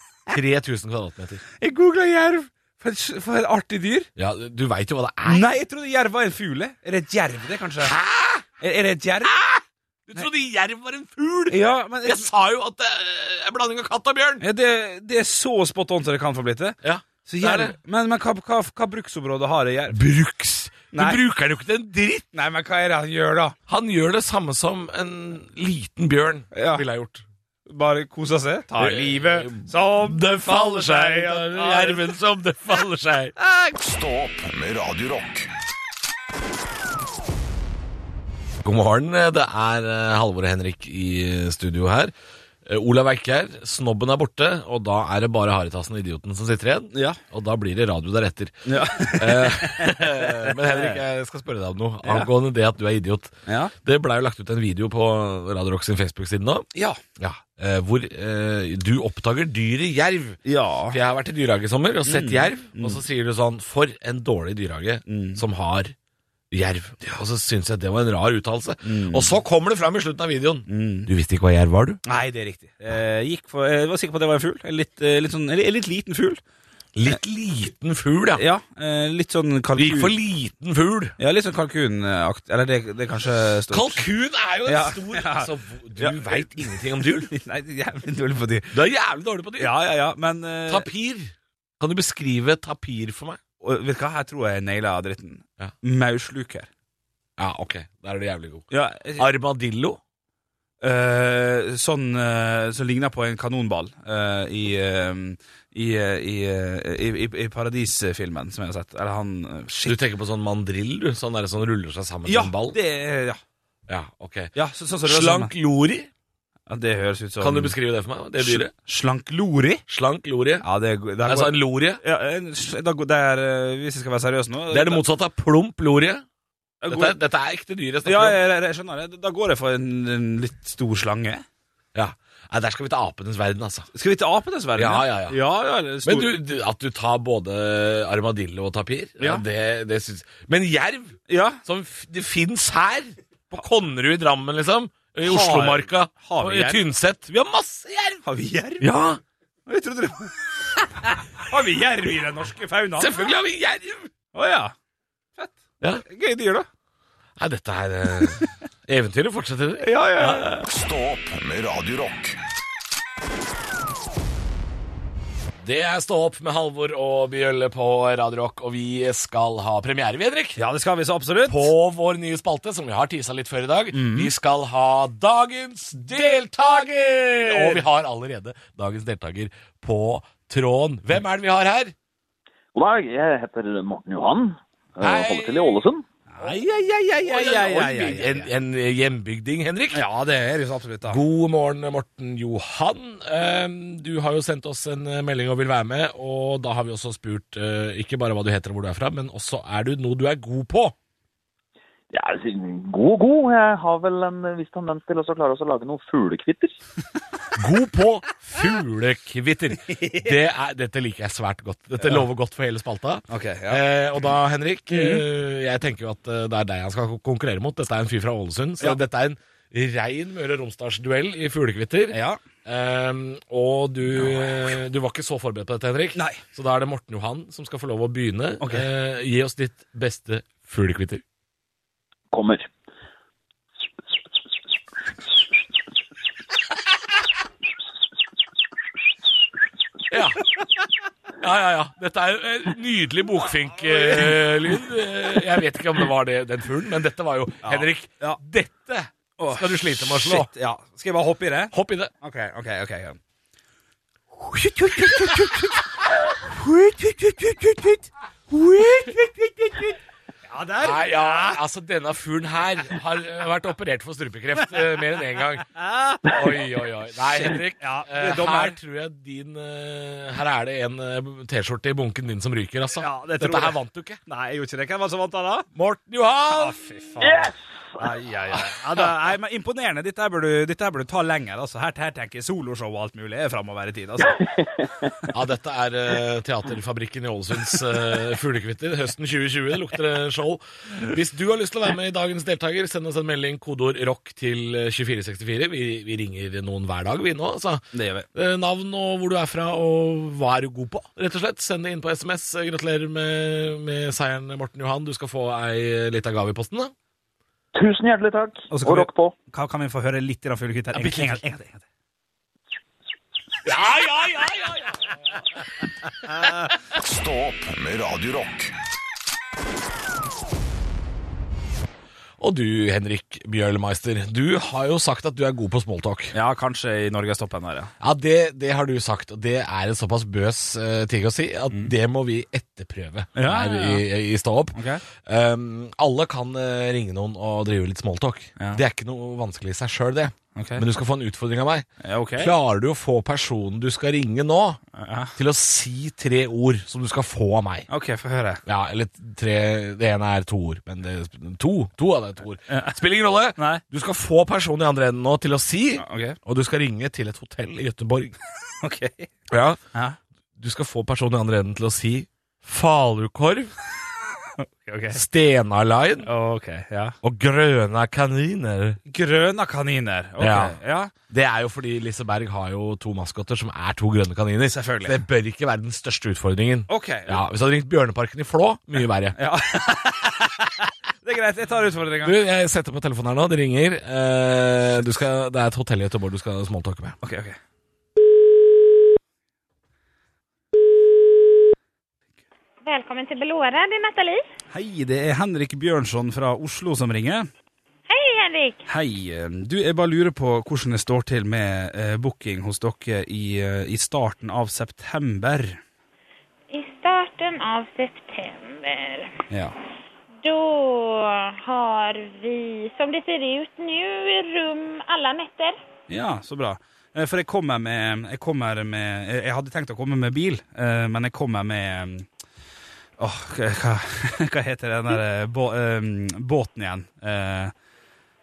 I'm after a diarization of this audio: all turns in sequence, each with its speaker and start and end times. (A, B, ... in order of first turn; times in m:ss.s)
0:00.3-0:01.4 A
0:01.6-0:04.1 B
0:04.2-0:05.4 A
0:05.2-0:07.9 B
0:07.8-0:08.5 A
0:08.6-0:09.4 B
0:09.2-0:14.4 A
0:11.5-0:12.3 B
0:14.4-0:20.0 B
0:16.8-0:17.8 A
0:19.9-0:22.2 A
0:20.9-0:21.2 B
0:22.3-0:23.6 B
0:23.7-0:27.2 A
0:26.5-0:26.8 B
0:27.7-0:32.1 B
0:28.8-0:33.3 A
0:33.5-0:35.5 C
0:38.6-0:42.1 A
0:42.6-0:56.6 A
0:46.9-0:47.2 B
0:48.7-0:51.0 B
0:52.0-0:52.3 B
0:53.5-0:53.7 B
0:57.2-1:05.9 A
1:00.4-1:01.0 B
1:02.0-1:03.0 B
1:05.1-1:05.4 B
1:06.5-1:12.0 A
1:08.8-1:09.4 B
1:10.7-1:11.1 B
1:12.0-1:16.4 B
1:17.0-1:18.4 A
1:18.4-1:20.1 B
1:19.8-1:21.1 A
1:21.2-1:24.0 B
1:23.7-1:27.3 A
1:24.6-1:28.8 B
1:28.7-1:29.7 A
1:29.6-1:30.9 B
1:30.7-1:33.4 A
1:33.6-1:36.7 B
1:37.4-1:40.0 A
1:38.7-1:39.3 B
1:40.8-1:50.0 B
1:49.8-1:52.8 A
1:52.2-1:53.4 B
1:53.9-1:54.5 A
1:54.5-1:55.5 B
1:55.0-1:56.1 A
1:56.7-1:57.7 B
1:57.4-1:58.7 A
1:58.4-1:59.8 B
1:59.9-2:00.6 A
2:00.6-2:05.0 B
2:01.2-2:02.0 A
2:04.7-2:06.2 A
2:06.8-2:07.2 B
2:06.9-2:08.4 A
2:08.0-2:11.4 B
2:11.9-2:13.9 A
2:13.9-2:16.4 B
2:14.8-2:15.4 A
2:16.0-2:28.2 A
2:21.3-2:21.6 B
2:25.2-2:26.8 B
2:28.2-2:28.9 B
2:28.8-2:29.2 A
2:29.7-2:30.3 B
2:31.0-2:33.3 B
2:33.0-2:34.1 A
2:34.3-2:34.7 B
2:35.4-2:36.7 B
2:37.4-2:40.6 A
2:39.8-2:40.5 B
2:40.7-2:42.4 C
2:45.6-2:50.6 A
2:50.6-2:51.7 B
2:51.4-3:01.9 A
2:53.9-2:54.3 B
2:57.4-2:57.8 B
3:02.7-3:06.0 D
3:05.0-3:05.8 A
3:06.3-3:08.5 B
3:07.2-3:10.0 A
3:09.9-3:11.2 B
3:11.1-3:20.9 A
3:22.1-3:26.8 D
3:27.6-3:51.2 A
3:29.9-3:30.3 B
3:32.0-3:32.2 B
3:33.3-3:33.8 B
3:34.9-3:35.2 B
3:42.1-3:42.4 B
3:46.2-3:46.4 B
3:48.6-3:48.9 B
3:52.3-3:52.7 D
4:00.1-4:00.4 A
4:01.4-4:10.5 A
4:03.9-4:04.4 B
4:07.6-4:08.4 B
4:09.4-4:13.2 B
4:11.7-4:12.1 A
4:14.4-4:20.0 B
4:15.0-4:15.5 A
4:20.5-4:21.6 B
4:20.8-4:25.7 A
4:24.6-4:25.1 B
4:25.6-4:26.6 B
4:26.2-4:34.2 A
4:27.3-4:28.8 B
4:33.0-4:35.7 B
4:35.7-4:36.8 A
4:36.5-4:44.5 B
4:37.2-4:38.0 D
4:45.3-4:57.8 A
4:57.9-4:58.3 B
4:58.3-5:06.9 A
5:07.7-5:09.3 D
5:08.7-5:11.8 B
5:10.9-5:11.4 A
5:13.6-5:15.1 A
5:16.9-5:18.7 C
5:22.4-5:26.3 A
5:26.3-5:27.9 B
5:28.0-5:41.9 A
5:33.4-5:34.0 B
5:34.7-5:35.0 B
5:40.5-5:40.8 B
5:42.0-5:42.5 B
5:42.4-5:44.8 A
5:44.9-5:45.3 B
5:45.4-5:47.9 A
5:47.9-5:48.6 B
5:48.6-5:58.4 A
5:52.7-5:53.0 B
5:53.6-5:53.8 B
5:56.0-5:56.4 B
5:58.8-5:59.3 B
5:59.5-5:59.8 A
6:00.6-6:03.7 A
6:04.6-6:05.2 B
6:05.1-6:06.3 A
6:06.2-6:07.1 B
6:07.2-6:09.0 A
6:09.1-6:11.1 B
6:10.4-6:10.8 A
6:11.3-6:19.4 A
6:14.7-6:15.2 B
6:16.9-6:17.4 B
6:19.4-6:22.4 B
6:22.2-6:27.2 A
6:27.2-6:27.6 B
6:32.8-6:34.4 E
6:34.7-6:37.5 B
6:38.1-6:38.8 E
6:38.9-6:45.8 B
6:46.7-6:49.4 E
6:49.5-6:49.7 B
6:50.4-6:55.8 E
6:56.1-7:02.2 B
7:03.2-7:07.7 B